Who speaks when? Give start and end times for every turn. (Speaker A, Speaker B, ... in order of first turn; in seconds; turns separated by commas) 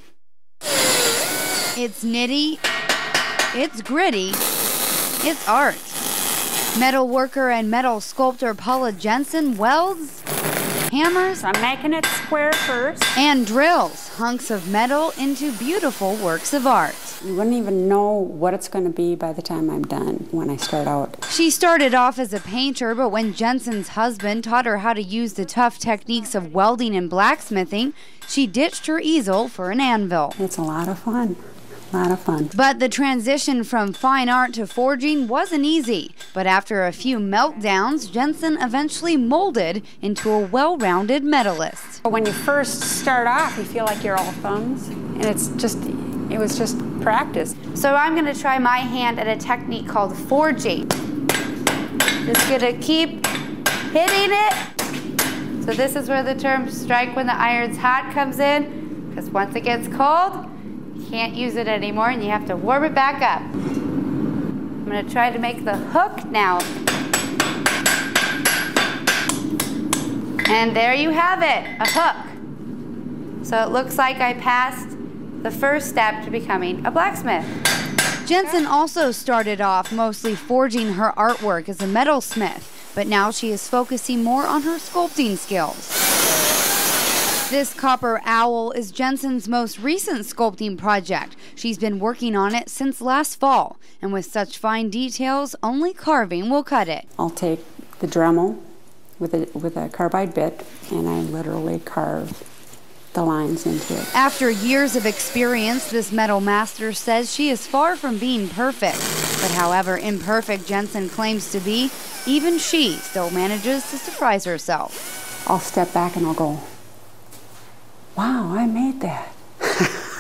Speaker A: 1.8-2.6, Speaker A: 3.5-4.4, Speaker A: 5.2-6.0, Speaker A: 6.8-10.2, Speaker A: 10.9-11.4, Speaker B: 11.4-13.1, Speaker A: 13.2-17.2, Speaker B: 17.2-21.2, Speaker A: 21.3-30.4, Speaker B: 30.4-31.4, Speaker B: 31.9-32.5, Speaker A: 32.5-42.0, Speaker B: 42.1-47.6, Speaker A: 47.7-50.9, Speaker A: 52.2-53.3, Speaker A: 53.9-54.6, Speaker A: 55.6-63.5, Speaker A: 64.8-66.7, Speaker A: 70.5-72.3, Speaker A: 73.4-77.6, Speaker A: 78.2-86.0, Speaker A: 87.5-97.1, Speaker B: 97.2-98.6, Speaker B: 99.2-102.4, Speaker B: 103.1-104.1, Speaker A: 104.1-115.0, Speaker B: 115.5-116.7, Speaker B: 118.2-120.1